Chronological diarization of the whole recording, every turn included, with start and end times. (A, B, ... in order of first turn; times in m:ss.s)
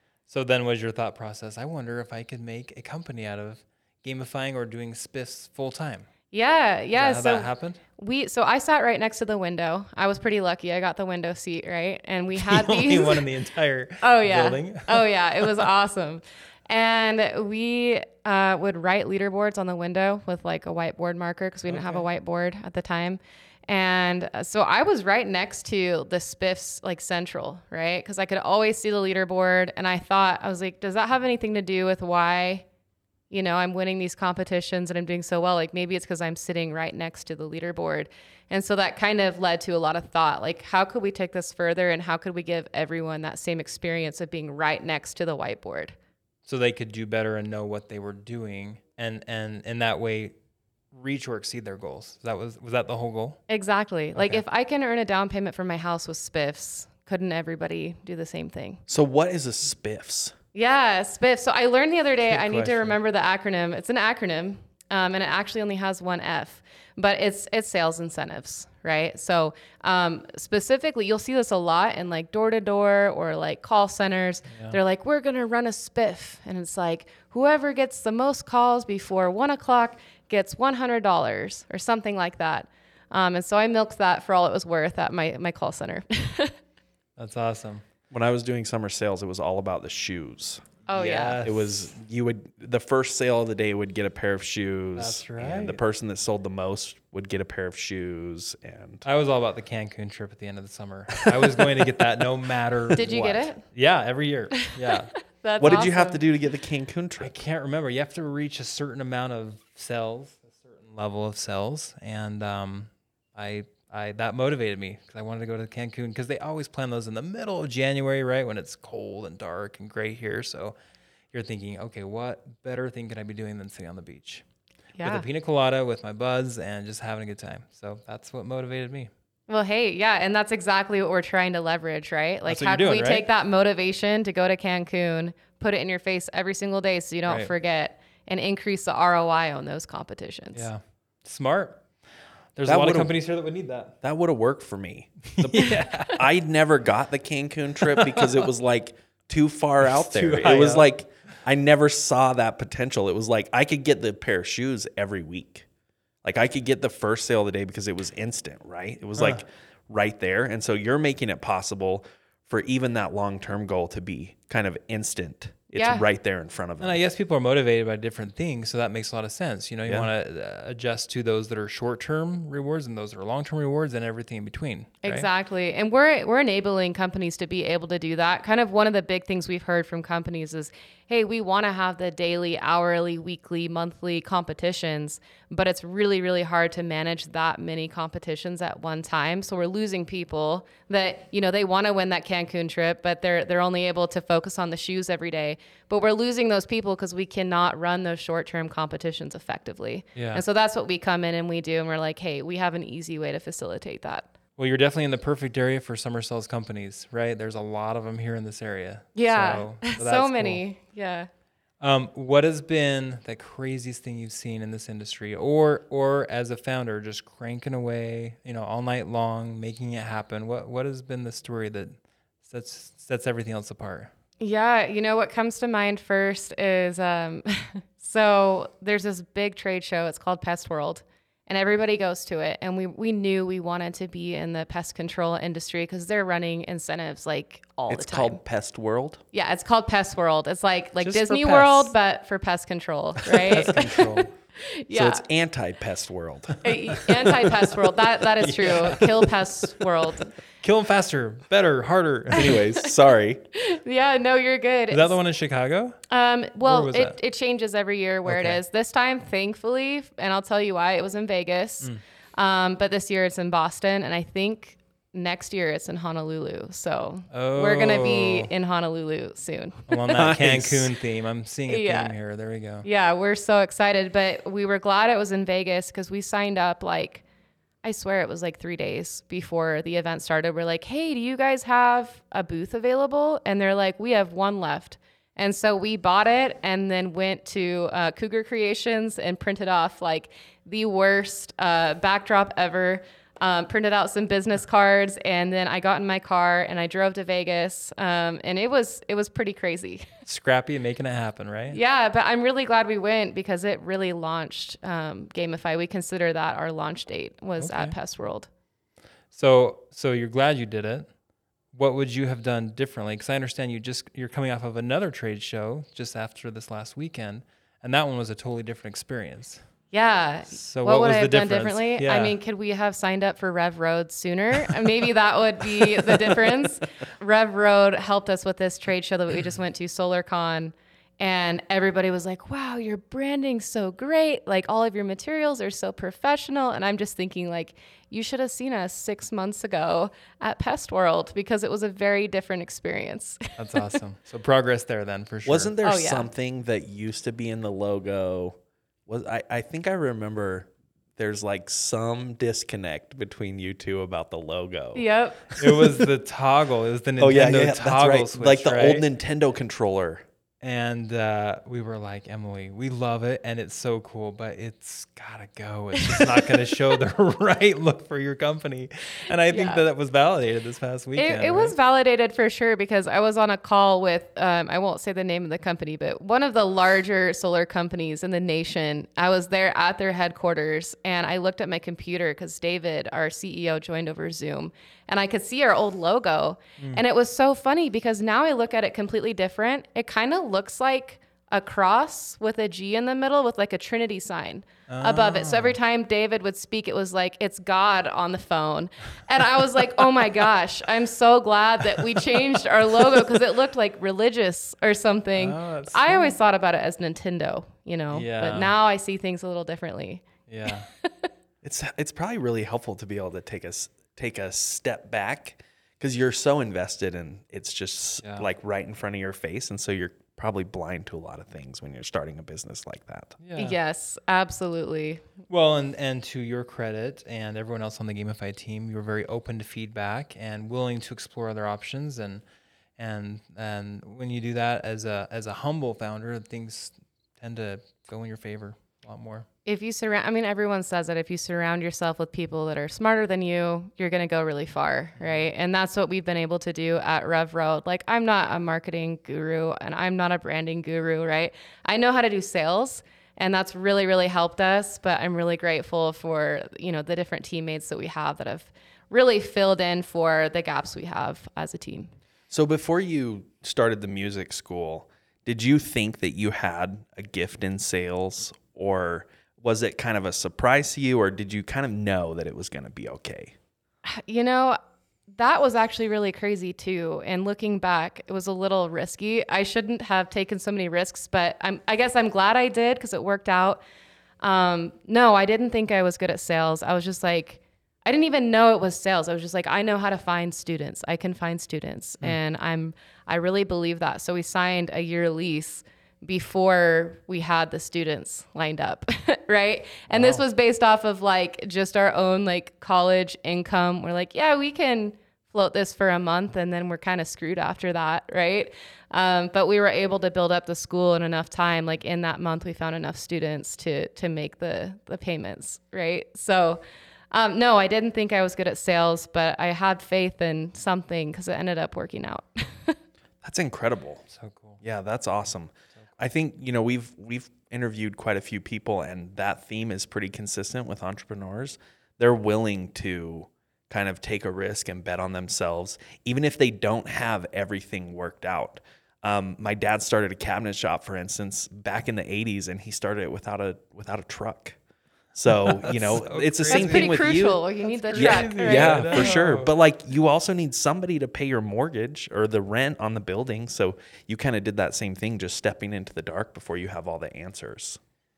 0:00.3-0:06.1 A
0:06.3-0:13.2 B
0:06.9-0:07.8 A
0:12.3-0:15.6 A
0:14.0-0:32.6 B
0:21.7-0:22.0 A
0:33.3-0:45.9 B
0:46.4-0:50.3 A
0:50.9-0:53.4 A
0:53.5-0:58.8 B
0:54.1-0:54.4 A
0:58.9-1:00.3 C
1:00.5-1:26.5 B
1:02.3-1:03.0 A
1:14.5-1:14.8 A
1:27.2-1:27.8 A
1:28.1-1:30.7 C
1:30.9-1:31.5 B
1:30.9-1:31.7 A
1:31.4-1:39.0 C
1:35.0-1:35.8 A
1:39.0-1:45.1 A
1:42.9-1:43.6 B
1:45.3-1:46.2 B
1:45.6-1:47.3 C
1:47.2-2:00.8 A
2:01.3-2:04.4 A
2:05.0-2:05.2 B
2:05.0-2:09.1 A
2:09.5-2:20.7 B
2:12.5-2:13.2 A
2:17.2-2:17.5 A
2:20.5-2:21.9 A
2:22.5-2:24.0 A
2:22.6-2:23.1 C
2:24.0-2:35.6 C
2:25.3-2:26.2 A
2:27.9-2:28.4 A
2:29.8-2:30.8 A
2:36.2-2:47.0 C
2:39.2-2:39.4 A
2:45.7-2:46.0 B
2:46.8-2:55.3 A
2:55.0-3:24.3 B
3:20.1-3:20.4 A
3:24.6-3:30.6 A
3:29.1-3:31.3 B
3:31.8-3:44.1 A
3:44.4-3:58.4 B
3:57.9-3:59.2 C
3:59.3-4:05.2 B
4:01.0-4:01.9 A
4:03.3-4:04.3 A
4:04.9-4:06.7 C
4:06.6-4:10.3 B
4:08.2-4:09.3 A
4:10.6-4:12.5 A
4:12.3-4:13.4 C
4:12.4-4:12.9 B
4:13.5-4:15.2 B
4:14.9-4:16.0 A
4:16.1-4:30.0 B
4:16.6-4:17.1 A
4:18.2-4:18.6 A
4:27.3-4:28.5 A
4:29.9-4:32.9 A
4:30.1-4:30.9 C
4:31.7-4:32.1 B
4:32.8-4:37.2 B
4:37.8-5:00.1 B
5:00.2-5:01.8 A
5:01.7-5:08.5 B
5:07.6-5:08.0 A
5:09.3-5:11.1 A
5:11.7-5:19.6 A
5:19.9-5:43.8 B
5:20.5-5:22.3 A
5:26.0-5:26.5 A
5:43.6-5:45.7 A
5:45.4-5:55.0 C
5:45.8-5:46.3 B
5:54.9-5:56.0 B
5:55.6-5:59.0 A
5:57.2-6:00.2 C
6:00.6-6:11.7 A
6:09.5-6:09.8 B
6:11.2-6:51.3 B
6:34.9-6:35.8 A
6:45.4-6:46.3 A
6:48.1-6:48.7 A
6:50.5-6:50.9 A
6:51.6-7:03.4 C
7:03.4-7:03.7 A
7:03.6-7:05.2 B
7:05.5-7:12.4 A
7:13.0-7:19.4 A
7:19.6-7:42.1 B
7:25.2-7:25.4 A
7:42.5-7:53.5 C
7:54.0-7:54.8 B
7:55.3-8:03.8 B
8:04.4-8:36.8 B
8:20.1-8:20.4 A
8:37.3-8:43.0 B
8:43.4-8:44.2 C
8:44.3-8:44.8 A
8:44.8-9:04.8 C
9:05.3-9:07.6 C
9:05.5-9:07.3 A
9:06.7-9:09.3 B
9:07.8-9:09.7 A
9:08.1-9:18.0 C